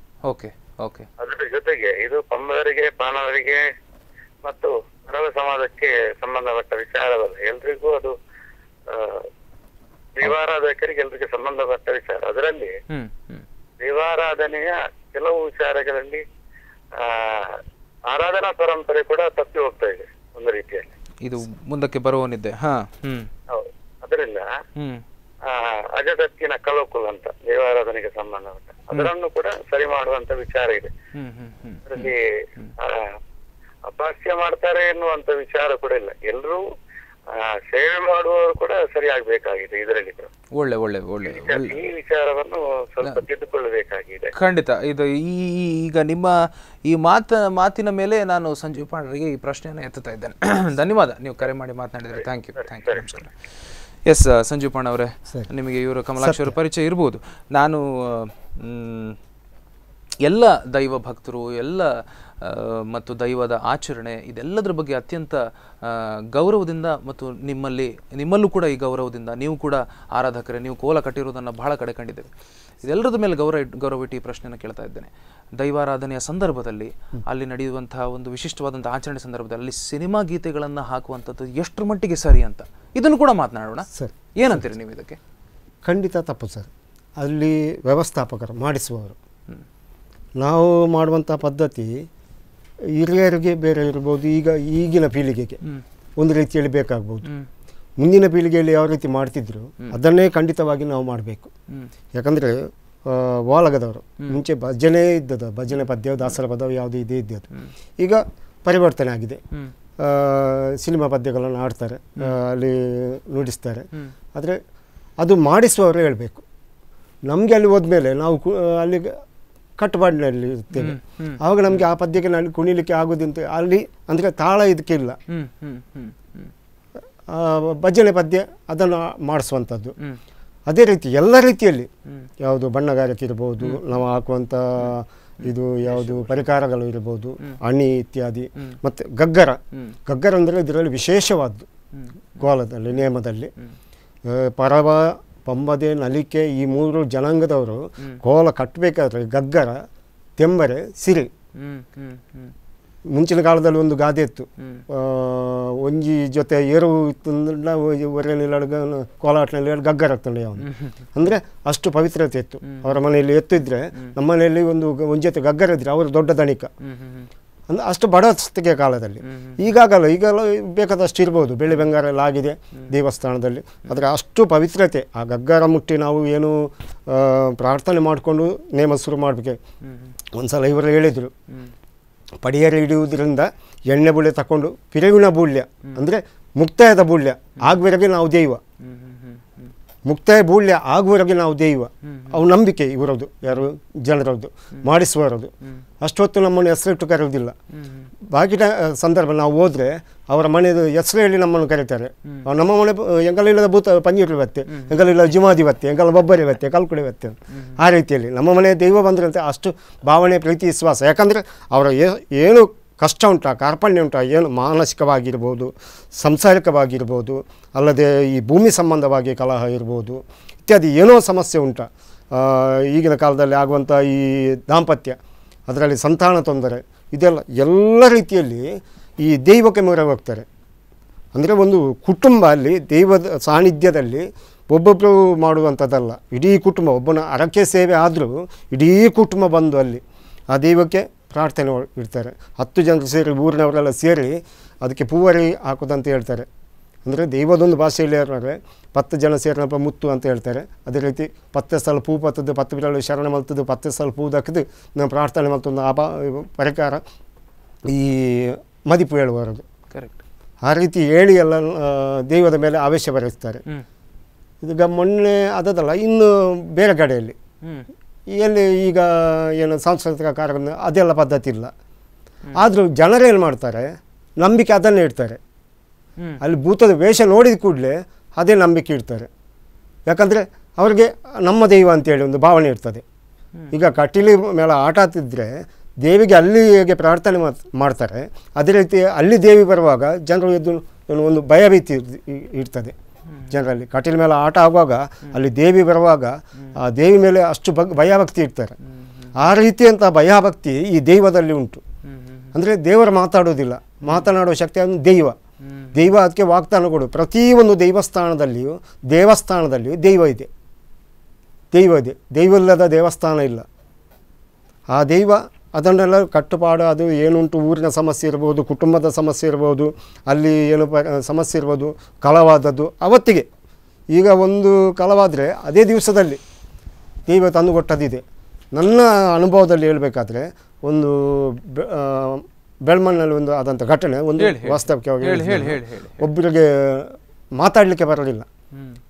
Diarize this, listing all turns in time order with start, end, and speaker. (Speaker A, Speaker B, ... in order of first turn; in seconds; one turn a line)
Speaker A: 0.3-1.1
Speaker B: 1.2-3.6
Speaker B: 4.4-8.1
Speaker B: 8.9-9.2
Speaker B: 10.2-12.7
Speaker A: 12.9-13.4
Speaker B: 13.8-16.2
Speaker B: 17.0-17.6
Speaker B: 18.1-20.9
Speaker A: 21.2-23.3
Speaker B: 23.5-24.4
Speaker B: 25.5-30.9
Speaker A: 31.1-32.7
Speaker B: 31.9-32.2
Speaker B: 32.8-33.1
Speaker B: 33.9-36.6
Speaker B: 37.3-40.3
Speaker A: 40.5-41.8
Speaker B: 41.2-44.3
Speaker A: 44.3-53.3
Speaker B: 52.7-53.2
Speaker A: 54.1-59.2
Speaker C: 56.2-56.5
Speaker A: 60.2-61.9
Speaker A: 62.4-72.3
Speaker A: 72.8-85.2
Speaker C: 83.9-84.6
Speaker C: 85.8-89.2
Speaker C: 90.4-92.1
Speaker C: 93.0-95.6
Speaker C: 96.2-97.2
Speaker C: 98.0-101.5
Speaker C: 102.1-107.5
Speaker C: 108.0-109.4
Speaker C: 110.0-114.6
Speaker C: 115.2-116.4
Speaker C: 117.3-119.1
Speaker C: 119.8-125.2
Speaker A: 120.8-121.8
Speaker A: 125.3-126.5
Speaker C: 127.3-129.9
Speaker C: 130.7-131.9
Speaker C: 132.4-141.7
Speaker A: 135.5-136.4
Speaker C: 142.4-143.5
Speaker C: 144.3-149.7
Speaker C: 150.4-151.3
Speaker A: 151.6-152.5
Speaker C: 153.1-166.7
Speaker A: 160.6-160.9
Speaker A: 162.6-163.0
Speaker A: 166.8-167.3
Speaker C: 167.7-179.6
Speaker A: 169.2-169.6
Speaker A: 179.8-180.1
Speaker C: 180.3-181.3
Speaker C: 182.4-188.6
Speaker A: 188.8-189.7
Speaker C: 190.1-197.5
Speaker A: 192.1-192.3
Speaker A: 197.7-198.1
Speaker C: 198.3-230.4
Speaker A: 204.7-204.9
Speaker C: 231.3-246.4
Speaker C: 247.0-257.0
Speaker C: 257.9-259.6
Speaker A: 259.9-260.2
Speaker C: 260.6-263.6
Speaker C: 264.6-267.4
Speaker C: 268.3-271.7
Speaker C: 272.6-273.9
Speaker C: 274.4-275.4
Speaker C: 276.4-279.3
Speaker C: 280.1-283.0
Speaker C: 283.7-292.9
Speaker C: 293.5-298.7
Speaker A: 298.9-299.3
Speaker C: 299.4-301.8
Speaker A: 302.1-302.5
Speaker C: 302.5-305.4
Speaker A: 305.6-305.9
Speaker C: 305.9-310.5
Speaker C: 311.7-313.6
Speaker C: 314.9-323.5
Speaker C: 324.1-326.4
Speaker C: 327.3-328.2
Speaker C: 328.7-338.4
Speaker A: 334.4-336.2
Speaker A: 338.7-339.0